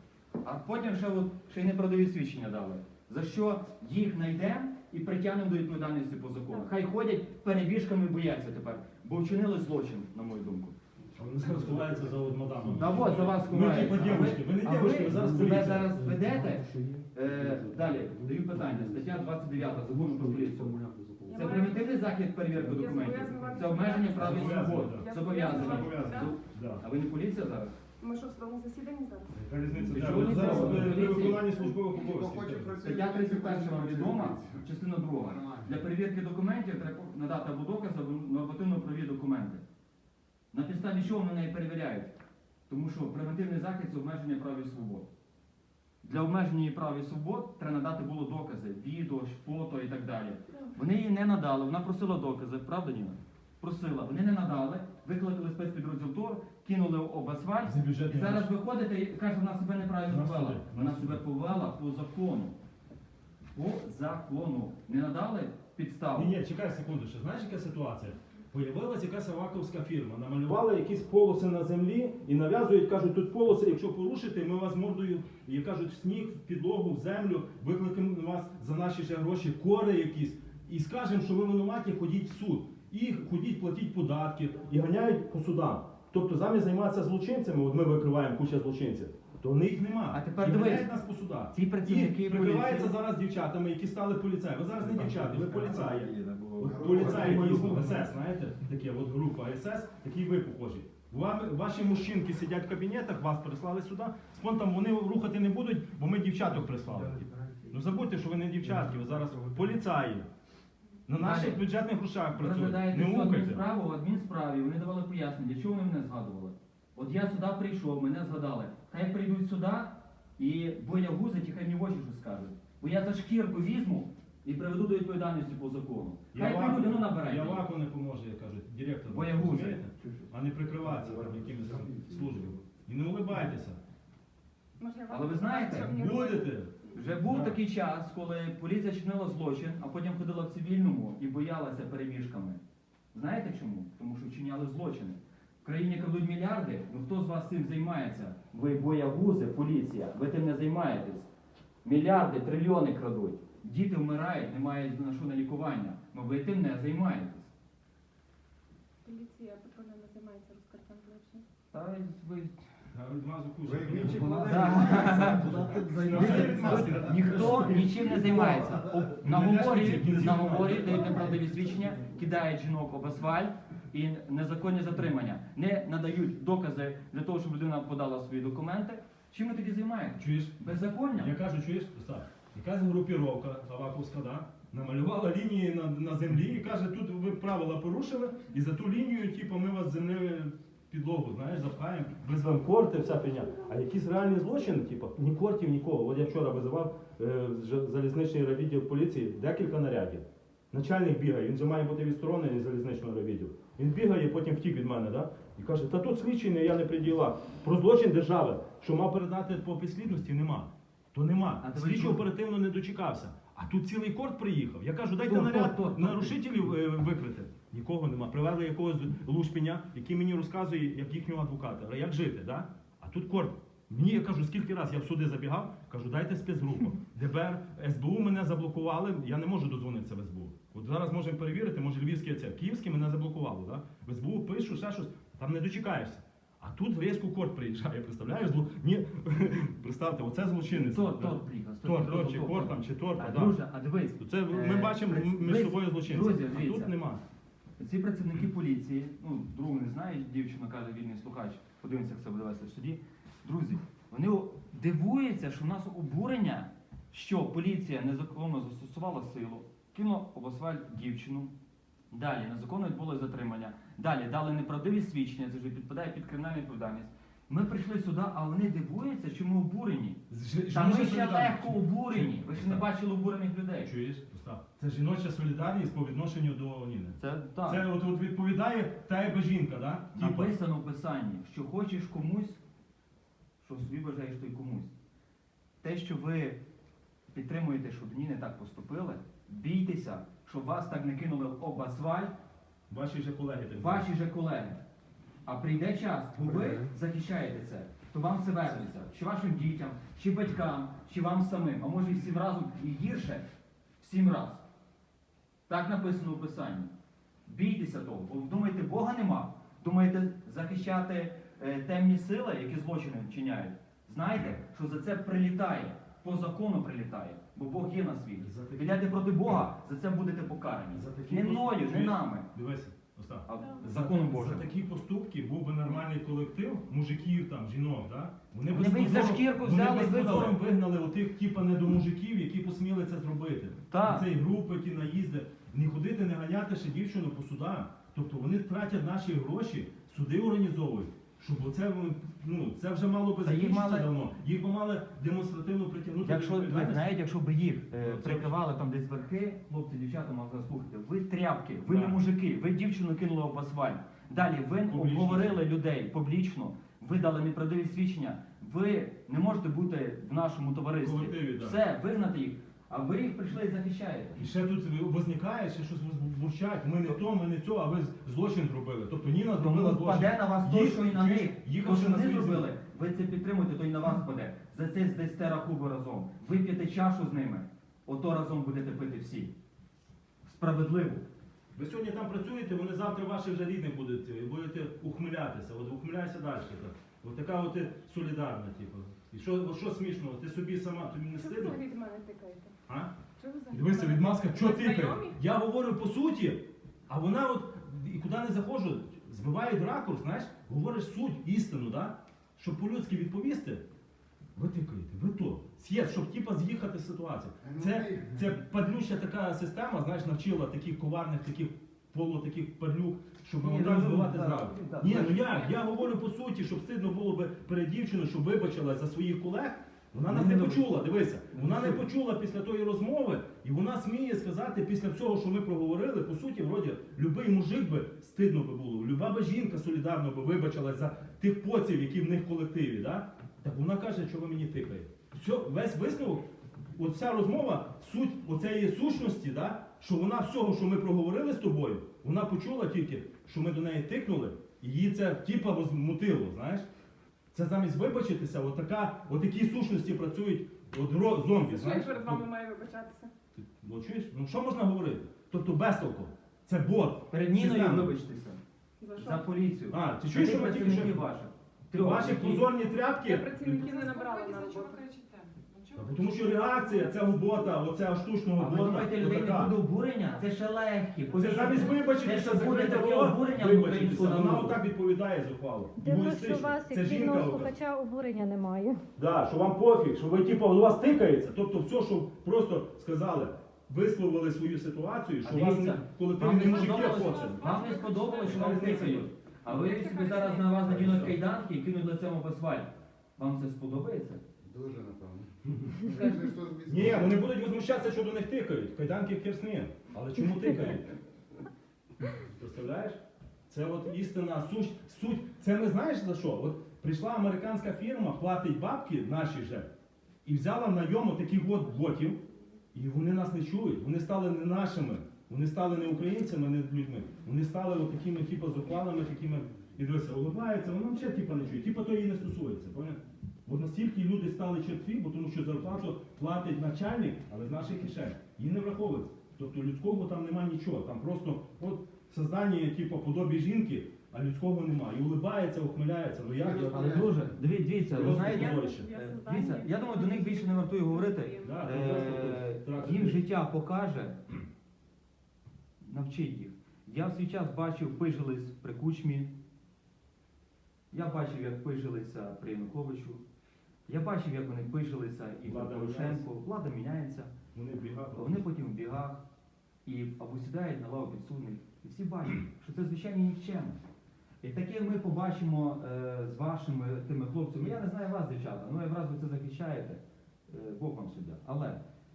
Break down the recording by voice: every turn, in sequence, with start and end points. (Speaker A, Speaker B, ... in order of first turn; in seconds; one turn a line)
Speaker A: 0.4-10.8
Speaker B: 11.2-13.9
Speaker C: 11.2-15.9
Speaker A: 12.8-20.7
Speaker B: 14.8-21.6
Speaker D: 21.3-26.3
Speaker A: 21.3-27.7
Speaker B: 22.6-23.6
Speaker C: 24.2-26.8
Speaker D: 28.0-29.4
Speaker C: 29.3-32.9
Speaker B: 29.7-34.6
Speaker A: 29.9-31.6
Speaker A: 32.8-39.6
Speaker B: 35.3-35.6
Speaker A: 40.5-42.2
Speaker A: 42.7-45.1
Speaker A: 46.0-62.5
Speaker C: 57.6-58.5
Speaker C: 60.1-61.2
Speaker A: 63.5-66.3
Speaker C: 66.1-110.3
Speaker A: 90.1-90.9
Speaker A: 91.5-92.9
Speaker B: 94.8-98.1
Speaker B: 106.8-107.7
Speaker B: 108.6-109.7
Speaker C: 111.1-113.6
Speaker A: 111.2-111.6
Speaker A: 112.3-127.7
Speaker C: 126.3-133.8
Speaker A: 129.1-129.8
Speaker B: 130.8-132.6
Speaker D: 134.8-136.8
Speaker A: 135.1-135.9
Speaker C: 135.7-137.6
Speaker A: 136.9-142.6
Speaker A: 143.1-151.3
Speaker A: 151.8-157.5
Speaker D: 159.1-161.4
Speaker A: 161.7-162.6
Speaker C: 162.9-167.8
Speaker B: 163.7-169.0
Speaker A: 164.0-181.3
Speaker C: 168.6-171.3
Speaker B: 170.5-172.2
Speaker C: 180.2-180.6
Speaker C: 181.2-243.6
Speaker A: 211.6-212.2
Speaker A: 215.3-216.4
Speaker A: 240.7-246.9
Speaker C: 244.2-247.2
Speaker A: 247.8-261.5
Speaker A: 262.1-273.9
Speaker C: 270.3-272.9
Speaker C: 273.8-280.5
Speaker A: 277.2-277.9
Speaker A: 280.1-282.6
Speaker A: 283.6-284.9
Speaker A: 285.8-286.6
Speaker A: 287.3-292.3
Speaker C: 292.9-294.1
Speaker A: 293.8-294.8
Speaker A: 295.5-303.4
Speaker A: 304.0-304.6
Speaker A: 305.7-306.9
Speaker A: 307.5-322.5
Speaker C: 318.4-319.3
Speaker C: 320.9-347.1
Speaker A: 323.5-324.7
Speaker A: 328.7-330.6
Speaker A: 333.9-334.3
Speaker A: 343.4-344.1
Speaker A: 346.2-364.5
Speaker C: 348.0-348.6
Speaker C: 351.9-352.2
Speaker C: 354.9-355.6
Speaker C: 361.0-361.8
Speaker C: 364.4-372.7
Speaker A: 369.6-379.5
Speaker A: 380.4-381.2
Speaker C: 381.7-391.8
Speaker D: 391.4-392.7
Speaker C: 392.9-393.1
Speaker D: 393.4-395.4
Speaker C: 393.7-403.8
Speaker C: 404.6-446.9
Speaker B: 407.7-408.1
Speaker B: 413.6-415.4
Speaker A: 413.6-414.3
Speaker A: 415.0-415.4
Speaker A: 420.3-420.9
Speaker A: 421.5-422.0
Speaker C: 447.5-452.5
Speaker D: 451.6-453.3
Speaker C: 453.6-458.1
Speaker A: 457.3-458.6
Speaker D: 459.0-459.4
Speaker A: 459.2-462.7
Speaker C: 459.9-461.2
Speaker C: 461.9-464.1
Speaker D: 463.2-465.1
Speaker E: 463.9-466.8
Speaker C: 465.9-469.8
Speaker A: 468.6-474.8
Speaker C: 471.3-477.7
Speaker F: 476.0-479.0
Speaker C: 479.2-489.3
Speaker A: 485.4-494.4
Speaker E: 487.0-488.6
Speaker E: 489.7-490.8
Speaker C: 490.9-491.4
Speaker B: 494.6-495.5
Speaker A: 496.1-496.4
Speaker B: 496.1-497.4
Speaker C: 496.9-501.1
Speaker C: 502.2-509.9
Speaker C: 510.4-512.4
Speaker C: 512.9-537.5
Speaker B: 536.6-537.3
Speaker A: 536.8-544.4
Speaker C: 538.0-539.1
Speaker D: 538.4-541.8
Speaker C: 541.6-543.5
Speaker A: 546.0-549.5
Speaker A: 551.1-553.4
Speaker A: 554.1-557.5
Speaker C: 555.6-556.4
Speaker C: 557.7-558.6
Speaker A: 558.4-559.4
Speaker A: 560.1-564.0
Speaker A: 564.6-572.0